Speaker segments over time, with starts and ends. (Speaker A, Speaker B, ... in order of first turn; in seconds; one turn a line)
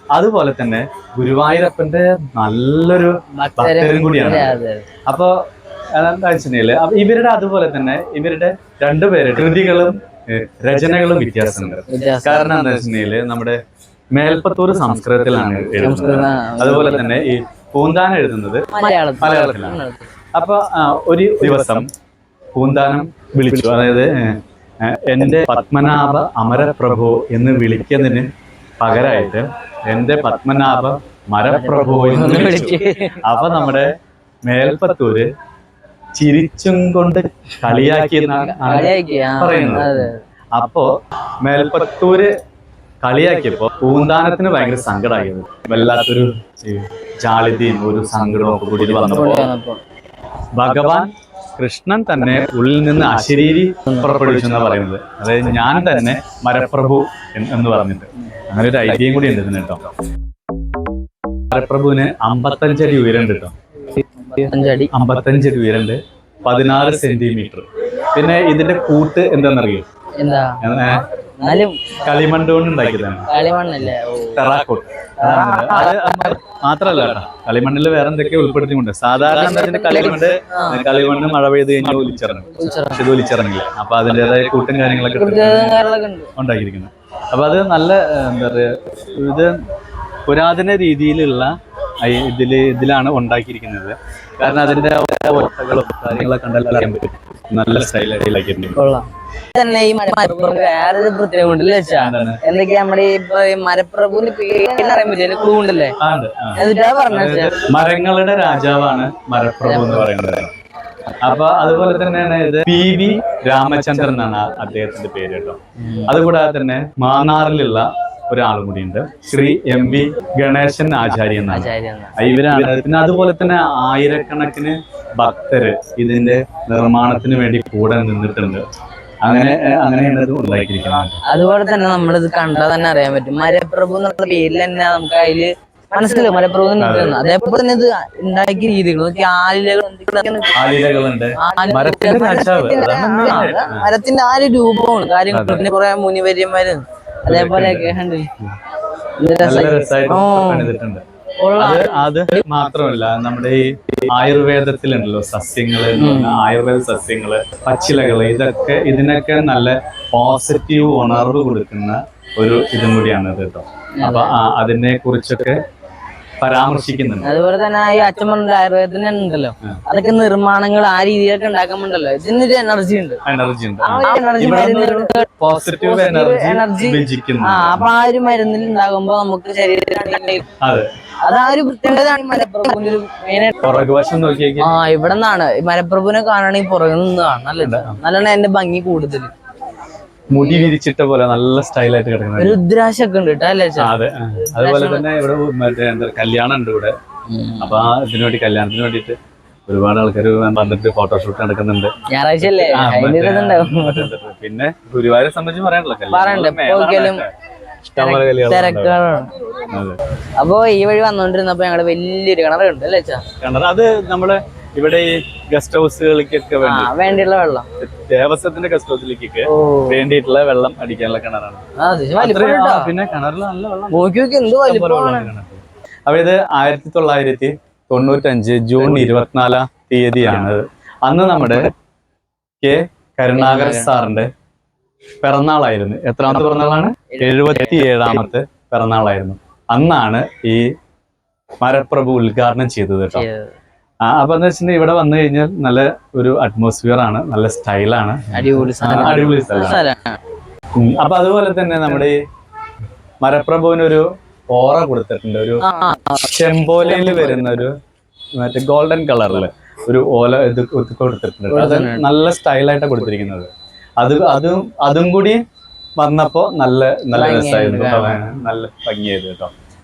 Speaker A: 0.1-5.4
Speaker B: 3.3-4.8
Speaker A: 5.9-13.6
Speaker B: 11.9-12.5
Speaker A: 14.1-19.8
Speaker B: 15.8-17.1
Speaker B: 18.7-20.1
Speaker A: 20.3-21.9
Speaker A: 22.6-28.3
Speaker A: 28.8-33.9
Speaker B: 31.6-33.2
Speaker A: 34.5-35.3
Speaker A: 36.1-40.9
Speaker B: 38.5-40.2
Speaker A: 41.4-42.3
Speaker A: 43.0-49.5
Speaker B: 49.1-49.8
Speaker A: 50.5-59.9
Speaker A: 61.5-63.5
Speaker B: 63.9-64.9
Speaker A: 64.9-69.8
Speaker B: 70.2-70.6
Speaker A: 70.6-71.1
Speaker B: 71.4-72.0
Speaker A: 72.0-73.3
Speaker B: 73.3-74.4
Speaker A: 74.3-85.8
Speaker B: 75.2-76.3
Speaker B: 79.3-80.8
Speaker B: 82.5-83.0
Speaker B: 85.0-86.3
Speaker A: 86.3-89.6
Speaker A: 90.2-98.9
Speaker B: 98.7-106.0
Speaker A: 102.0-102.4
Speaker A: 106.0-110.5
Speaker B: 106.6-107.6
Speaker B: 109.6-110.1
Speaker A: 111.2-128.6
Speaker B: 121.5-122.2
Speaker A: 129.2-131.2
Speaker B: 131.2-140.6
Speaker A: 136.8-137.2
Speaker A: 140.6-143.9
Speaker B: 141.4-148.3
Speaker A: 145.3-145.7
Speaker A: 147.3-148.5
Speaker B: 149.2-150.7
Speaker A: 149.4-151.0
Speaker B: 151.4-152.4
Speaker A: 151.6-165.6
Speaker B: 155.9-156.4
Speaker B: 164.0-164.4
Speaker A: 166.4-167.3
Speaker B: 167.2-173.2
Speaker A: 173.2-177.9
Speaker B: 173.8-180.4
Speaker A: 180.6-180.9
Speaker B: 181.2-183.8
Speaker A: 183.6-184.7
Speaker B: 184.6-189.3
Speaker A: 187.6-188.0
Speaker A: 190.3-192.6
Speaker B: 190.3-190.7
Speaker B: 192.4-195.1
Speaker A: 193.8-197.0
Speaker B: 197.3-197.9
Speaker A: 197.6-207.3
Speaker B: 202.1-204.1
Speaker B: 206.1-207.2
Speaker A: 207.9-209.0
Speaker B: 208.0-209.3
Speaker A: 209.7-210.0
Speaker B: 210.4-213.2
Speaker A: 213.4-217.1
Speaker B: 216.6-217.7
Speaker A: 217.8-221.6
Speaker B: 219.5-220.0
Speaker B: 221.8-222.9
Speaker A: 222.2-231.7
Speaker B: 223.9-225.3
Speaker A: 232.6-234.3
Speaker B: 233.3-233.9
Speaker A: 235.2-240.7
Speaker B: 237.1-237.8
Speaker A: 241.6-243.3
Speaker B: 243.1-243.5
Speaker A: 244.0-249.8
Speaker B: 248.3-250.2
Speaker A: 250.8-252.2
Speaker A: 253.2-255.7
Speaker B: 255.6-256.2
Speaker A: 256.2-257.7
Speaker B: 256.8-257.4
Speaker A: 258.4-265.4
Speaker B: 261.5-262.1
Speaker A: 266.0-269.5
Speaker B: 267.1-268.2